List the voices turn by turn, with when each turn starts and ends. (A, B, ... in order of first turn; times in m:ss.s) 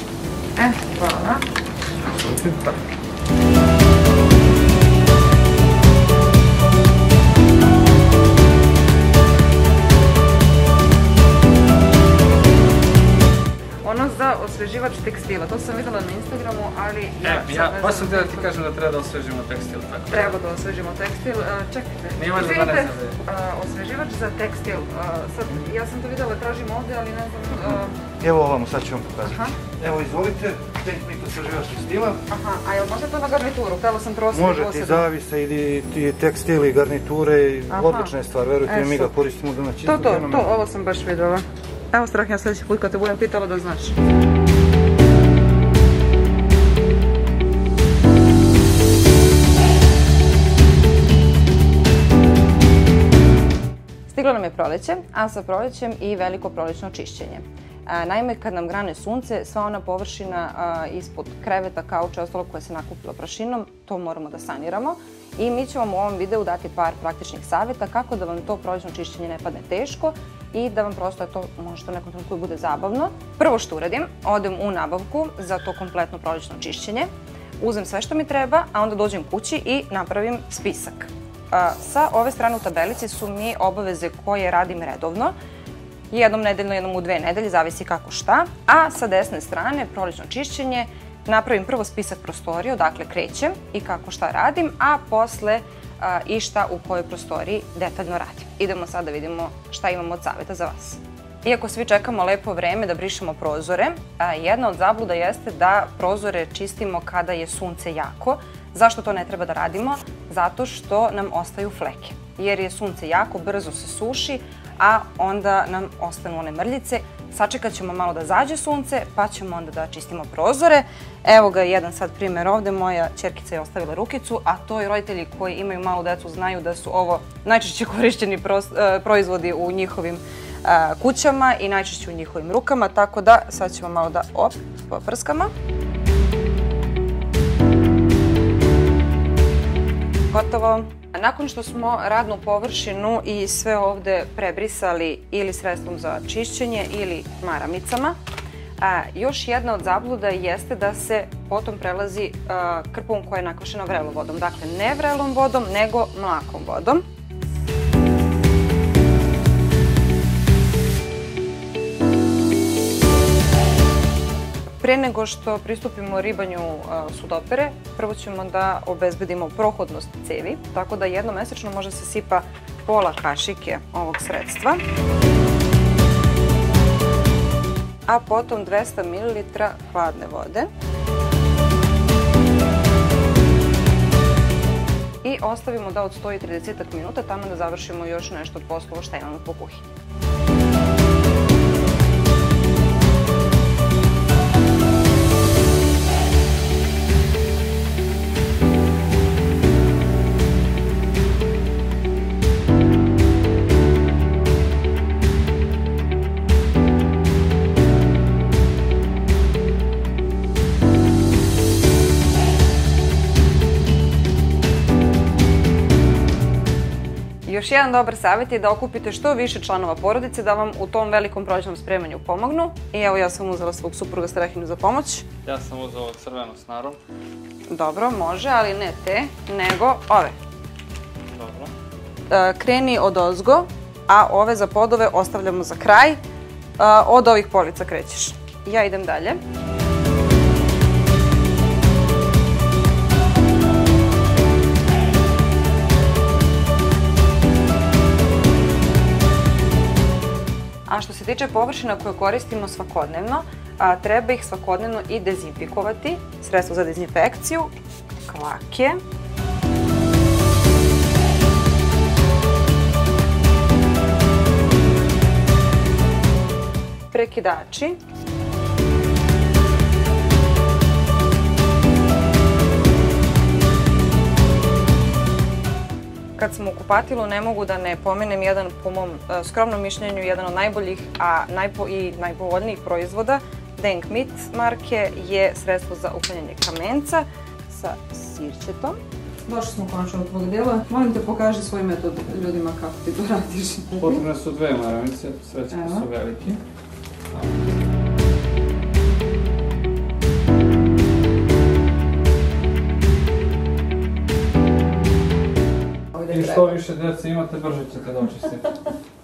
0:00.6-0:01.4 A
0:02.2-0:02.7 B
0:13.8-0:18.5 A
0:17.2-0:20.4 B
0:20.1-0:28.0 A
0:22.1-0:23.2 B
0:28.2-0:32.2 C
0:29.2-0:29.6 A
0:32.3-0:35.1 A
0:34.3-0:40.5 C
0:37.7-0:38.1 A
0:38.6-0:39.1 A
0:39.8-0:44.0 A
0:54.1-1:25.3 A
1:26.1-2:15.5 A
2:20.3-2:28.2 A
2:28.8-2:37.0 A
2:44.8-2:54.8 A
2:58.1-3:00.7 A
3:05.2-3:09.8 A
3:37.4-3:45.2 A
3:45.4-3:47.0 B
3:47.7-3:50.3 A
3:51.3-3:51.7 B
3:52.3-3:56.2 A
3:56.8-3:59.4 A
4:10.9-4:17.7 A
4:18.2-4:19.0 A
4:27.1-4:28.0 A
4:36.4-4:54.2 A
4:54.0-4:56.6 B
4:55.7-4:56.1 A
5:06.1-5:06.8 A
5:06.3-5:08.8 B